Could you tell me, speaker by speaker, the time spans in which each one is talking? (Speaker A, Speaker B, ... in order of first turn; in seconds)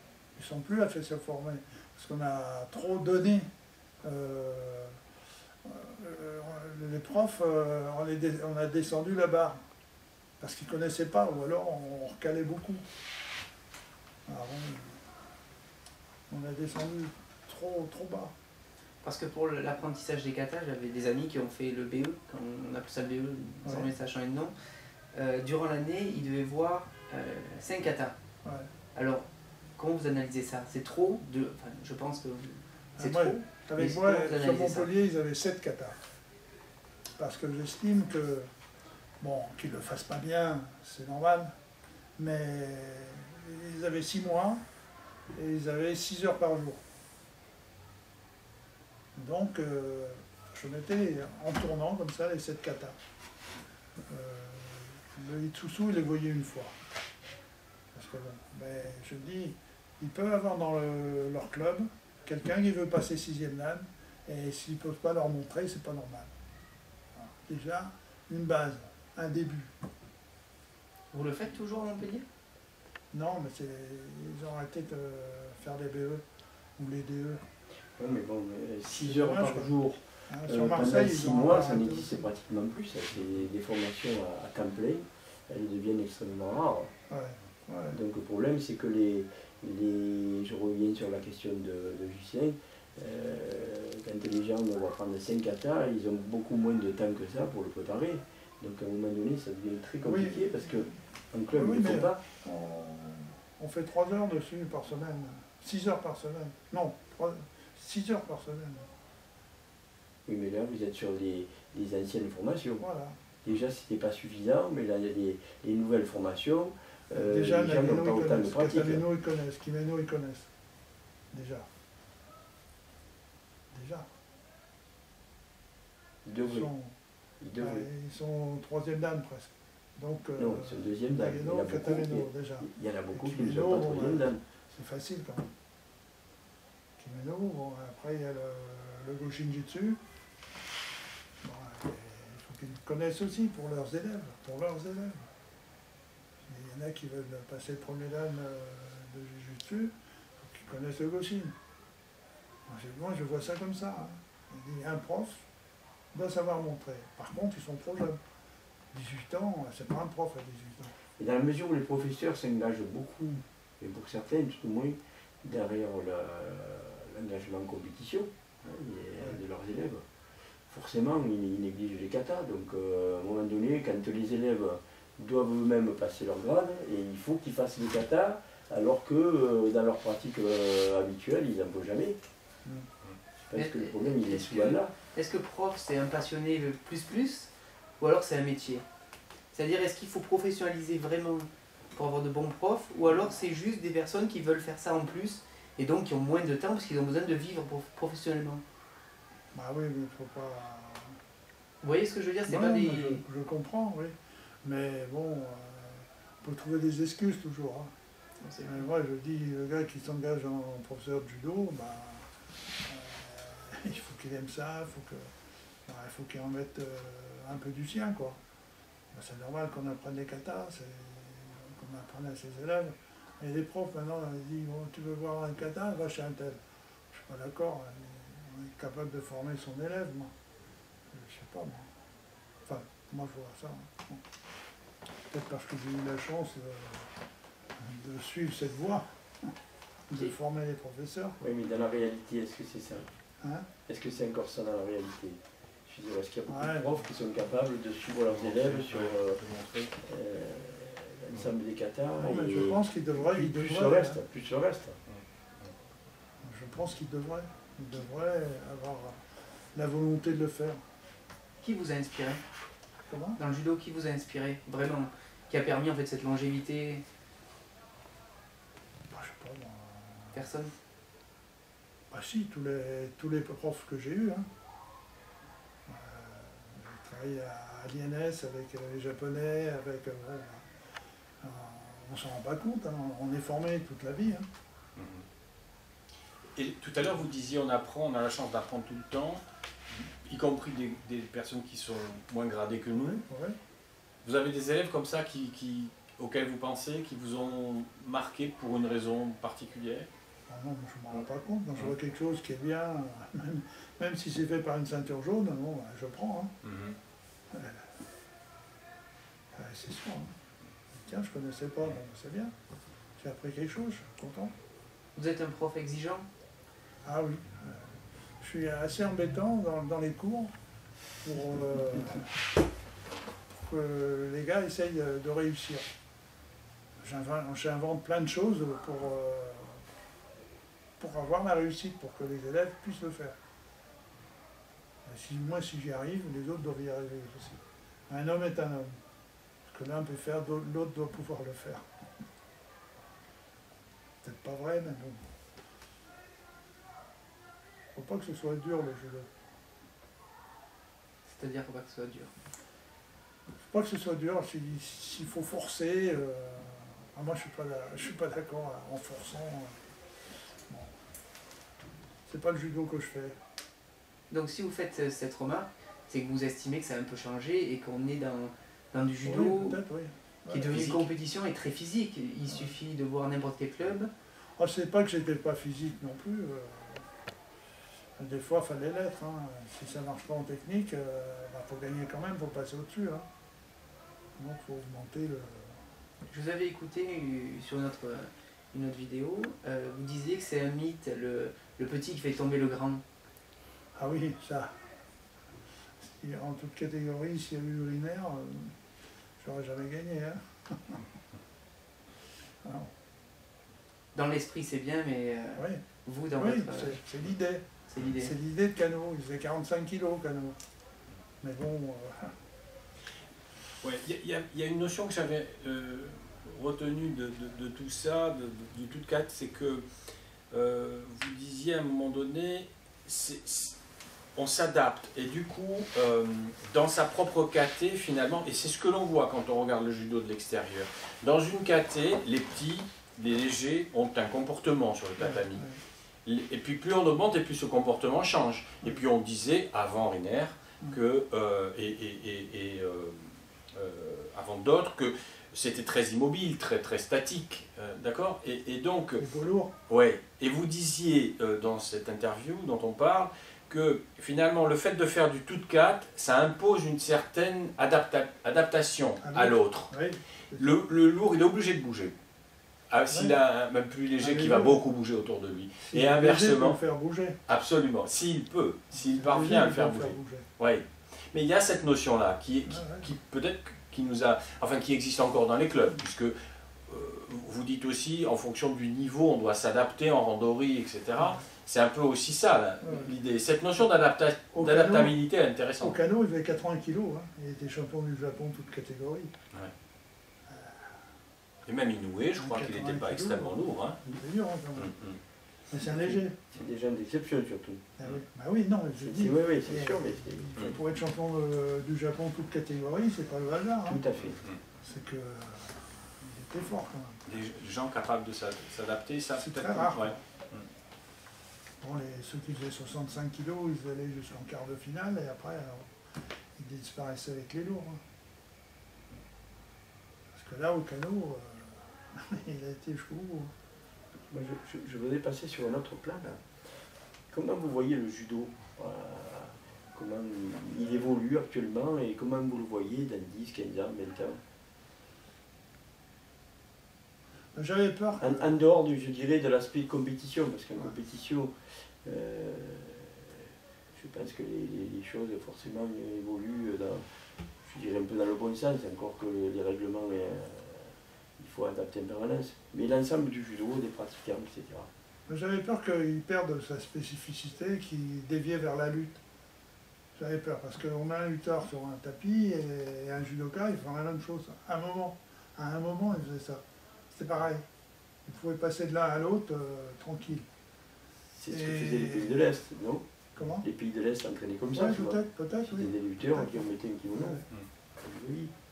Speaker A: 0.3-3.5, 4.0-5.0, 5.6-9.6, 10.4-12.8, 14.2-15.0, 16.3-18.3, 23.6-23.9, 28.4-28.7, 33.0-36.0, 37.2-38.5, 39.2-41.5, 42.2-44.6, 45.3-46.8, 49.2-53.0, 54.1-56.7, 57.9-66.3, 67.2-69.7, 73.1-76.2, 76.8-77.4, 78.9-79.7, 80.3-82.3, 87.1-88.0, 100.0-100.9, 101.5-108.9, 112.8-113.2, 117.1-120.5, 121.3-121.7, 123.7-124.0, 126.4-127.0, 127.6-135.5, 137.0-140.0, 141.4-145.3, 146.4-151.5, 152.7-155.4, 156.1-158.2, 158.9-160.9, 199.5-201.2, 202.5-207.9, 208.6-212.3, 212.8-215.3, 215.8-218.4, 219.1-230.3, 231.1-231.9, 232.6-234.2, 235.3-237.1, 237.8-239.5, 240.1-241.4, 243.4-243.7, 246.5-247.1, 252.2-254.2, 256.4-259.2, 259.7-260.8, 263.1-263.4, 269.1-270.4, 272.1-274.5, 275.9-280.7, 281.4-284.4, 292.9-293.6, 300.5-306.5, 307.5-307.9, 309.5-310.3, 311.0-312.5, 313.2-314.5, 317.1-320.5, 321.2-322.3, 323.6-325.9, 327.0-329.8, 331.0-333.4, 335.1-338.9, 339.7-341.8, 344.2-345.2, 347.9-349.3, 353.7-359.8, 360.7-360.9, 362.3-363.4, 369.2-370.8, 372.5-372.8, 374.6-377.0, 378.2-383.2, 384.4-385.8, 393.9-394.8, 396.0-398.8, 399.4-401.1, 402.6-402.9, 405.6-405.8, 406.4-407.7, 408.2-410.6, 411.4-412.3, 435.2-435.8, 449.2-449.7, 459.2-460.8, 463.1-463.4, 464.2-464.8, 465.8-467.4, 469.0-470.5, 472.7-473.1, 482.8-483.1, 484.5-485.2, 485.8-489.3, 490.5-490.9, 492.4-494.9, 495.7-496.4, 498.0-504.0, 504.8-507.2, 509.3-510.2, 511.8-515.9, 516.5-518.0, 520.3-523.5, 537.5-538.4, 555.3-559.2, 560.1-567.6, 568.2-570.5, 571.5-572.5, 573.4-573.6, 574.7-577.4
Speaker B: 19.0-24.6, 25.1-28.1, 28.9-29.2, 29.8-34.9, 71.1-72.2, 183.5-188.8, 189.5-198.6, 201.8-203.2, 208.4-208.8, 261.6-262.4, 263.4-267.0, 270.3-270.7, 315.1-316.3, 351.2-352.3, 364.3-369.8, 370.5-374.1, 386.3-393.0, 404.1-407.0, 407.9-408.3
Speaker C: 78.0-86.9, 87.9-102.2, 110.2-112.8, 113.4-119.0, 126.2-126.7, 127.4-127.9, 130.4-134.4, 161.2-170.0, 170.7-182.2, 183.4-184.9, 241.4-243.1, 243.8-249.4, 250.0-255.0, 495.9-497.9, 499.0-500.8, 503.9-504.4, 524.3-526.4, 527.3-534.4, 538.2-541.5, 542.0-543.4, 543.9-547.0, 547.6-554.9, 571.3-577.4, 578.0-578.5
Speaker D: 83.2-83.4, 248.1-249.9, 255.1-255.7, 285.0-285.2, 286.6-293.2, 294.2-300.1, 301.1-301.9, 306.6-307.0, 370.7-371.0, 413.8-419.9, 420.5-423.8, 424.4-435.7, 436.2-449.2, 449.9-459.9, 460.6-462.1, 462.9-466.8, 467.5-476.4, 476.9-486.0, 491.7-494.0, 494.8-495.2, 504.2-504.6, 507.3-510.7